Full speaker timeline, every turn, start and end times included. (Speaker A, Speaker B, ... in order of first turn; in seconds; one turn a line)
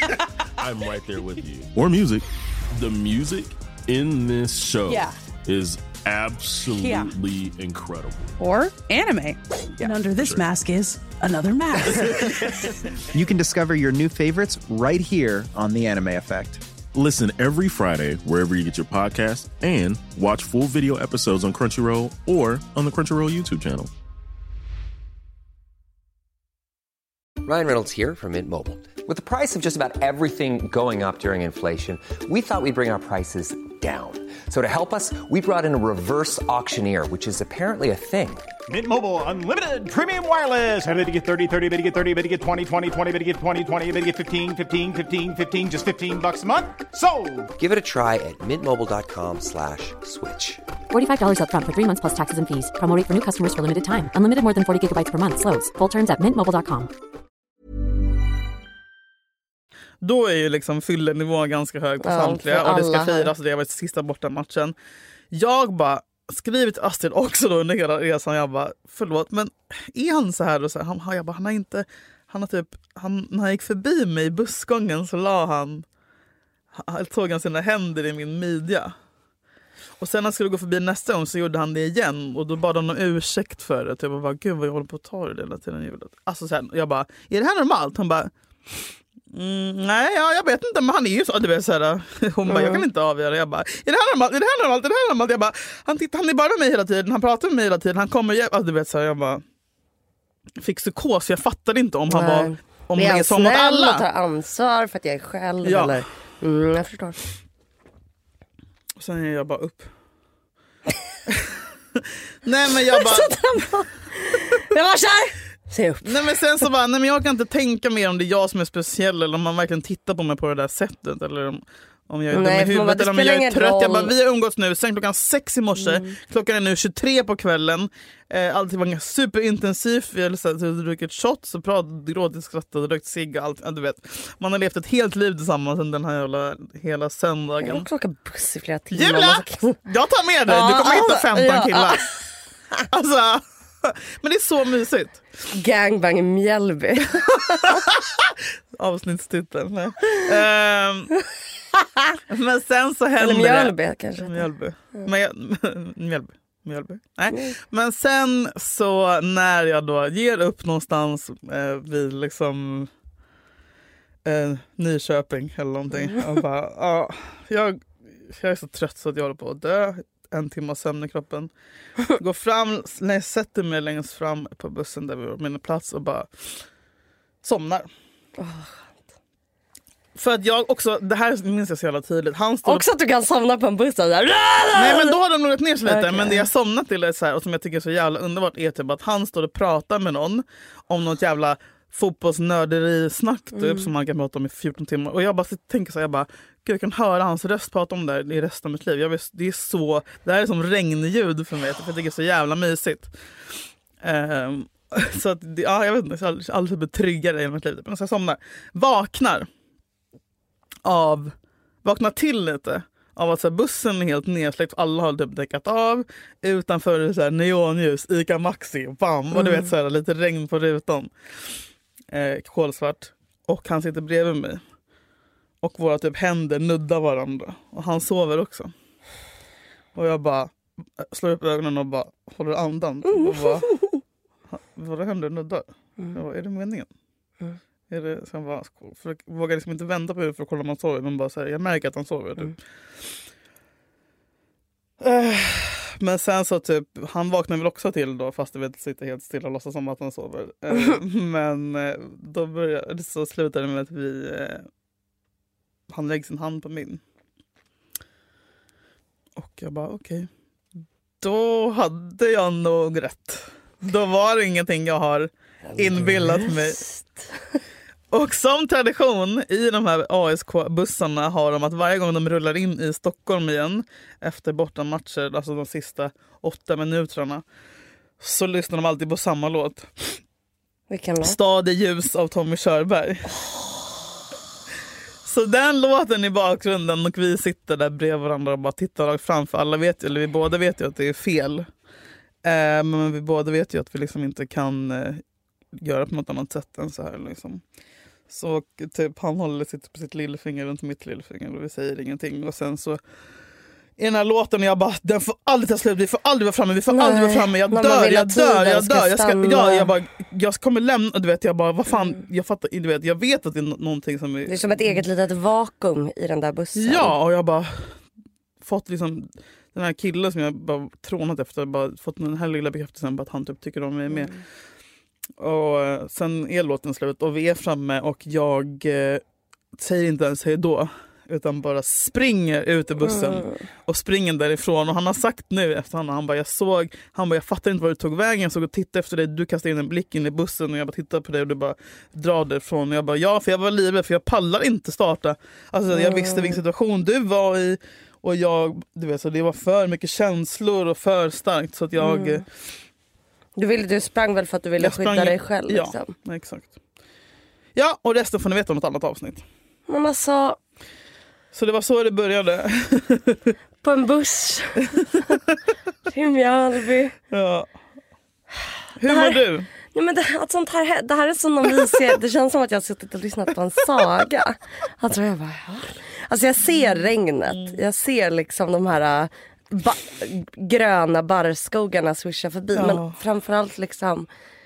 Speaker A: 0.6-8.3
Speaker B: 4.9-5.2
Speaker B: 6.8-7.1
Speaker B: 8.4-10.7
Speaker C: 9.8-12.3
Speaker A: 10.2-10.5
Speaker B: 11.6-12.1
Speaker D: 13.1-16.6
Speaker A: 16.9-23.9
Speaker E: 27.4-38.4
Speaker F: 38.7-47.5
Speaker E: 47.6-50.6
Speaker G: 50.9-56.9
Speaker H: 60.0-64.7
Speaker I: 62.0-63.3
Speaker H: 65.3-75.8
Speaker H: 76.7-78.9
Speaker H: 80.0-99.4
Speaker I: 92.5-92.8
Speaker H: 100.6-104.0
Speaker I: 102.1-107.2
Speaker H: 105.6-106.0
Speaker H: 109.0-109.9
Speaker H: 111.3-113.4
Speaker I: 112.9-116.2
Speaker H: 116.0-137.9
Speaker I: 122.3-124.1
Speaker I: 125.8-126.1
Speaker I: 137.6-139.8
Speaker H: 138.9-142.2
Speaker I: 140.5-142.0
Speaker H: 142.9-145.2
Speaker I: 145.5-147.8
Speaker H: 147.6-151.1
Speaker H: 152.3-162.9
Speaker I: 153.2-154.4
Speaker H: 164.2-171.5
Speaker H: 172.1-176.3
Speaker H: 177.4-177.9
Speaker I: 178.4-178.8
Speaker H: 180.2-182.9
Speaker I: 182.7-185.1
Speaker H: 184.7-203.1
Speaker I: 185.8-186.5
Speaker I: 193.6-193.8
Speaker H: 204.0-209.5
Speaker H: 210.8-221.4
Speaker I: 219.3-219.7
Speaker H: 222.1-224.6
Speaker H: 225.6-228.7
Speaker H: 229.9-233.7
Speaker I: 233.1-234.0
Speaker H: 234.5-236.9
Speaker H: 237.9-242.6
Speaker H: 245.0-254.7
Speaker H: 255.9-257.0
Speaker H: 259.4-260.3
Speaker H: 261.2-266.8
Speaker I: 265.7-267.3
Speaker H: 268.1-277.4
Speaker H: 278.2-280.2
Speaker I: 280.9-281.4
Speaker H: 281.2-283.4
Speaker H: 285.2-291.7
Speaker H: 292.4-295.2
Speaker H: 295.8-297.6
Speaker H: 298.3-303.0
Speaker H: 304.0-315.0
Speaker I: 306.9-309.9
Speaker I: 314.5-317.1
Speaker H: 316.8-318.0
Speaker H: 318.6-324.4
Speaker H: 325.4-329.2
Speaker H: 329.8-352.4
Speaker I: 333.0-333.6
Speaker I: 345.9-346.6
Speaker I: 352.0-352.4
Speaker I: 353.6-356.1
Speaker H: 354.8-356.7
Speaker H: 357.8-359.4
Speaker I: 359.9-360.6
Speaker H: 361.5-363.5
Speaker I: 363.8-365.4
Speaker H: 365.1-365.5
Speaker I: 366.1-367.1
Speaker H: 367.3-367.7
Speaker H: 369.0-369.7
Speaker I: 369.0-384.3
Speaker H: 376.7-377.8
Speaker H: 382.7-383.2